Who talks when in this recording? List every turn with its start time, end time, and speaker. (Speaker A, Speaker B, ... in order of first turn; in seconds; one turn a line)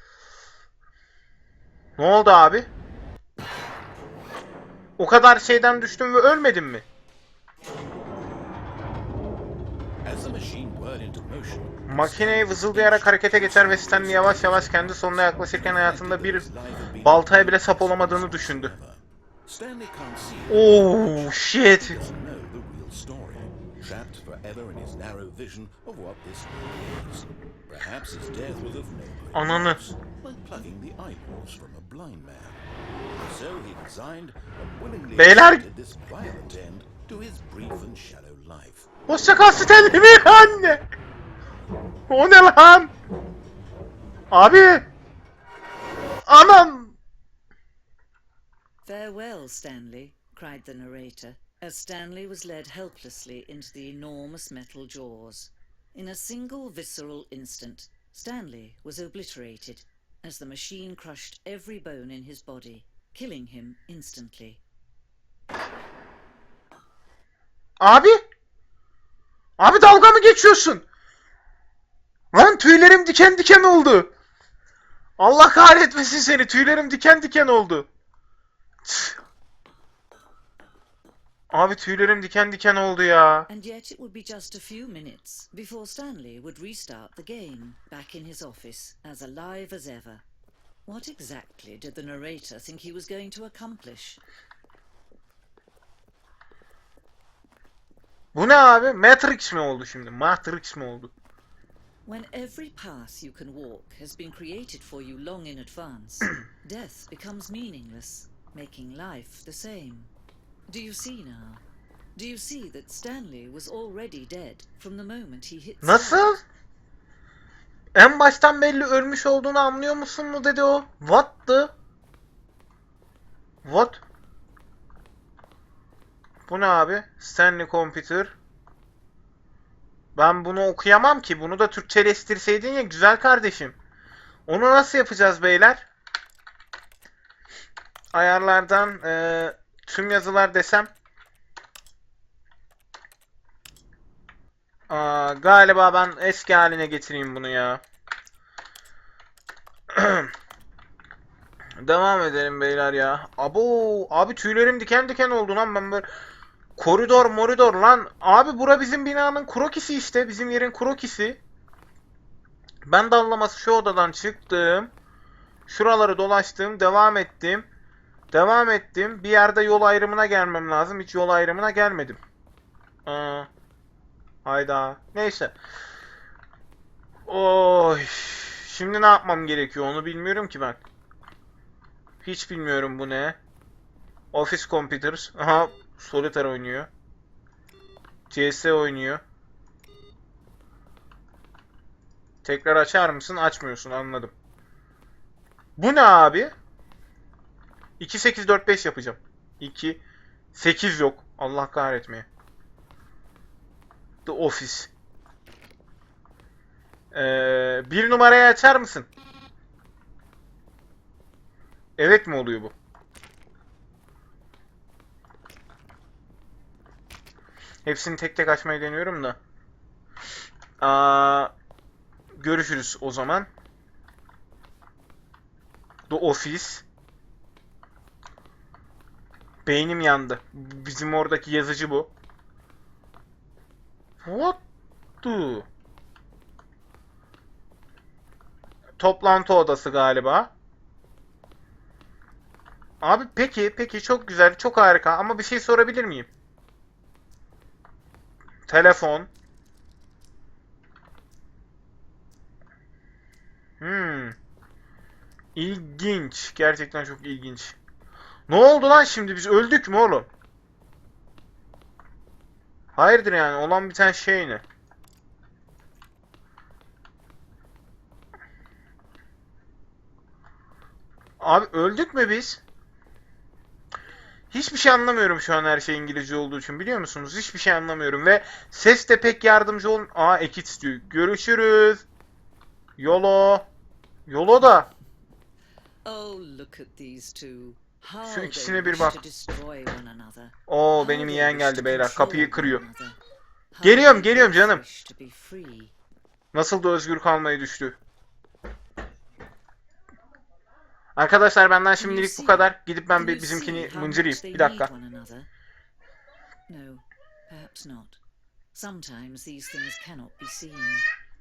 Speaker A: 2.0-2.7
Speaker A: 5.0-6.8
Speaker B: 10.1-38.9
Speaker A: 11.9-16.5
Speaker A: 17.0-18.7
Speaker A: 20.5-22.0
Speaker A: 29.3-29.8
Speaker A: 35.2-35.6
Speaker A: 39.1-40.8
Speaker A: 42.1-42.9
Speaker A: 44.3-44.9
Speaker A: 46.3-47.0
Speaker C: 48.9-64.6
Speaker A: 67.8-68.2
Speaker A: 69.6-70.8
Speaker A: 72.3-74.1
Speaker A: 75.2-77.9
Speaker A: 78.9-79.2
Speaker A: 81.5-83.5
Speaker C: 83.5-90.2
Speaker C: 90.9-94.2
Speaker A: 98.3-101.1
Speaker C: 102.1-110.1
Speaker C: 110.7-111.6
Speaker C: 112.2-116.3
Speaker A: 115.8-116.4
Speaker A: 118.0-121.7
Speaker A: 123.6-124.0
Speaker A: 126.5-128.3
Speaker A: 130.2-133.8
Speaker A: 134.5-135.9
Speaker A: 138.1-140.9
Speaker A: 144.9-147.8
Speaker A: 149.9-150.3
Speaker A: 151.8-156.1
Speaker A: 156.8-161.4
Speaker A: 162.9-164.9
Speaker A: 165.7-167.7
Speaker A: 168.3-172.2
Speaker A: 173.1-173.5
Speaker A: 174.4-175.6
Speaker A: 177.3-180.8
Speaker A: 182.2-183.4
Speaker A: 184.3-186.9
Speaker A: 188.3-189.2
Speaker A: 192.4-194.3
Speaker A: 195.8-196.5
Speaker A: 198.0-200.0
Speaker A: 200.5-202.3
Speaker A: 204.3-204.9
Speaker A: 207.1-209.1
Speaker A: 212.0-212.7
Speaker A: 217.8-219.4
Speaker A: 220.8-221.5
Speaker A: 222.3-223.5
Speaker A: 226.1-226.8
Speaker A: 229.7-232.1
Speaker A: 234.2-234.6
Speaker A: 235.2-235.7
Speaker A: 239.0-240.5
Speaker A: 243.0-246.3
Speaker A: 248.7-249.3
Speaker A: 253.8-254.3
Speaker A: 255.6-257.8
Speaker A: 258.5-260.3
Speaker A: 262.9-264.6
Speaker A: 271.4-272.6
Speaker A: 274.5-282.1
Speaker A: 283.0-283.7
Speaker A: 284.3-284.9
Speaker C: 286.1-293.2
Speaker A: 288.3-289.2
Speaker A: 290.7-292.8
Speaker C: 293.7-295.9
Speaker A: 293.8-294.8
Speaker A: 296.5-298.0
Speaker A: 301.2-304.9
Speaker C: 302.0-305.5
Speaker C: 306.7-308.2
Speaker C: 308.7-311.1